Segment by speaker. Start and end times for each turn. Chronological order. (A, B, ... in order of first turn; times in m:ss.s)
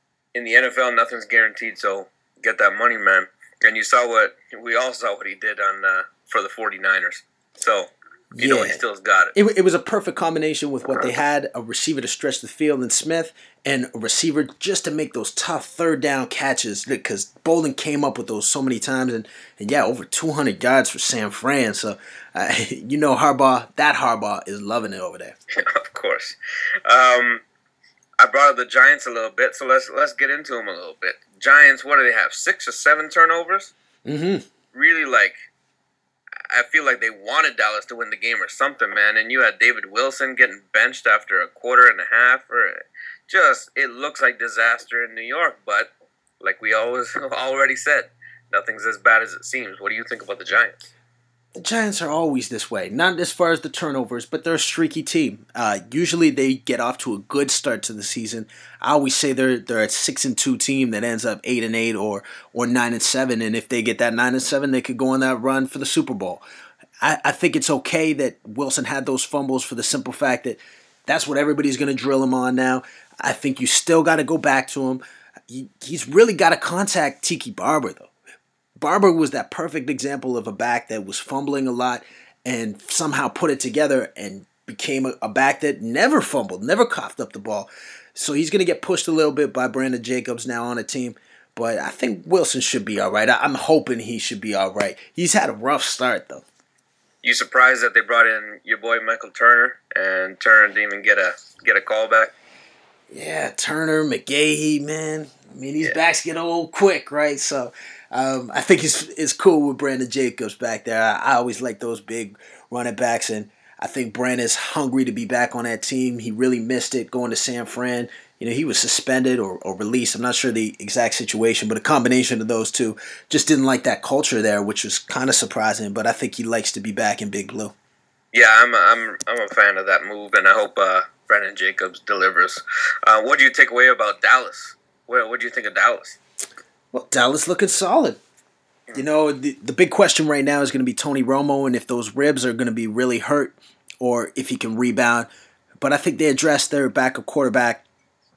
0:00.4-0:09.3 A
0:08.4-0:08.8 B
0:09.4-0:25.4 B
0:25.6-0:27.4 A
0:28.2-0:33.7 A
0:34.1-0:34.4 B
0:34.7-0:35.3 A
0:36.5-0:45.9 A
0:46.4-0:50.9 A
0:51.6-1:06.4 B
1:07.0-1:18.1 B
1:18.8-1:36.4 B
1:37.2-1:42.3 A
1:43.1-2:07.7 B
2:08.3-2:16.2 A
2:16.9-2:18.2 B
2:19.0-2:27.8 B